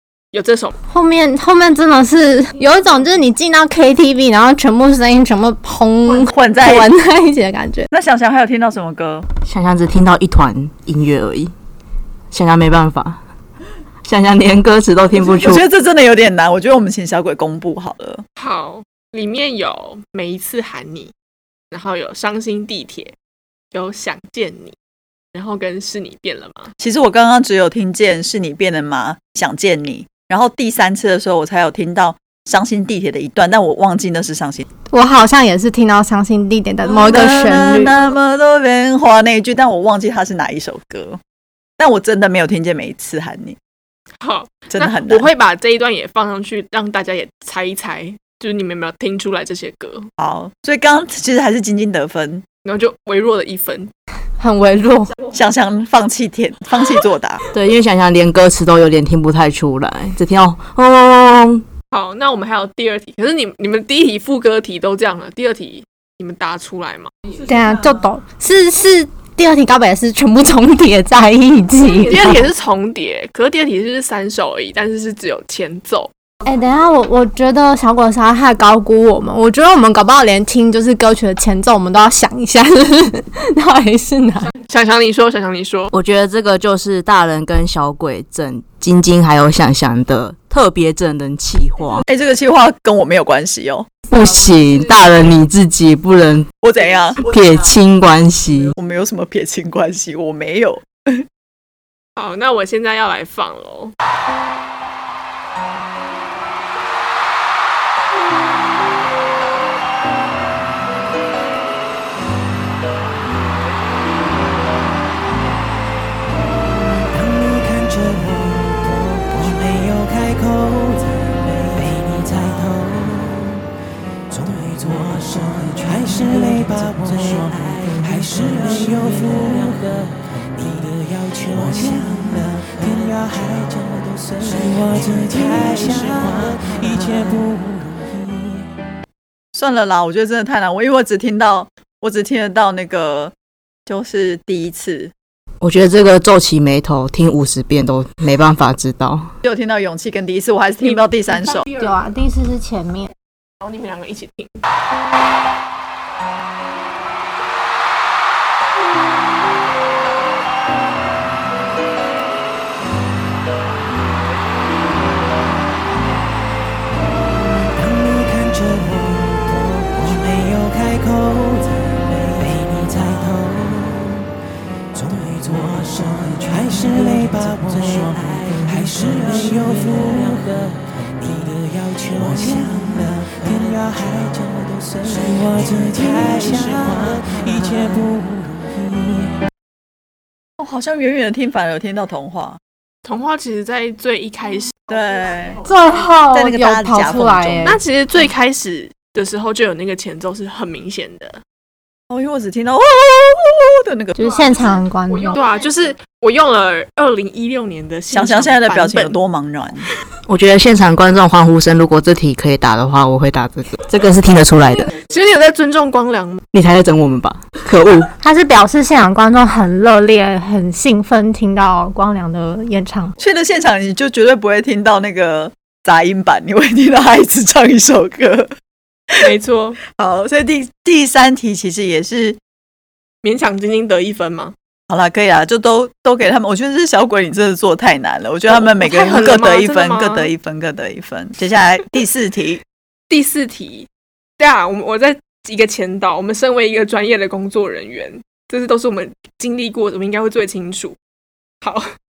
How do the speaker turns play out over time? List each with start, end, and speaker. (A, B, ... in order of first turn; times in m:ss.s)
0:00.3-0:00.7 A
0:00.9-0:07.9 B
0:06.2-0:06.9 C
0:07.9-0:09.3 C
0:09.4-0:11.5 D
0:12.3-0:13.2 D
0:14.0-0:15.6 D
0:15.2-0:18.2 C
0:18.4-0:21.1 A
0:21.7-0:23.2 A
0:23.7-0:24.8 A
0:25.3-0:26.7 A
0:26.8-0:34.6 C
0:34.9-0:37.9 B
0:36.8-0:41.2 C
0:41.8-0:43.6 C
0:44.2-0:50.1 A
0:44.7-0:45.3 C
0:50.2-0:52.4 C
0:52.6-0:53.9 A
0:54.4-0:55.1 B
0:55.3-0:57.4 C
0:57.5-1:01.6 D
1:01.9-1:07.1 A
1:07.4-1:12.5 B
1:11.9-1:16.1 A
1:16.4-1:24.5 B
1:24.6-1:25.9 A
1:25.9-1:32.0 D
1:32.0-1:33.9 C
1:34.1-1:36.5 D
1:36.6-1:37.2 C
1:37.2-1:38.7 D
1:38.8-1:41.3 C
1:42.2-1:43.9 A
1:57.1-2:03.6 E
2:04.3-2:18.6 E
2:19.5-2:23.3 C
2:23.9-2:25.1 C
2:25.6-2:29.3 D
2:29.4-2:31.7 C
2:30.8-2:31.7 A
2:31.7-2:33.1 B
2:33.6-2:34.6 A
2:47.7-2:54.3 E
2:54.9-3:09.3 E
3:10.6-3:12.6 C
3:13.0-3:14.8 A
3:14.9-3:15.6 C
3:15.6-3:17.8 B
3:16.3-3:17.8 C
3:17.6-3:21.4 A
3:22.1-3:24.5 C
3:24.2-3:25.4 B
3:25.2-3:29.2 A
3:28.1-3:29.9 C
3:30.3-3:34.9 D
3:34.9-3:36.4 A
3:36.5-3:38.1 D
3:38.2-3:43.2 B
3:43.2-3:48.5 C
3:49.2-3:49.8 A
3:49.8-3:52.4 C
3:53.2-3:54.6 A
3:54.9-4:02.6 C
3:58.5-4:00.3 A
4:03.1-4:11.0 A
4:11.6-4:11.9 A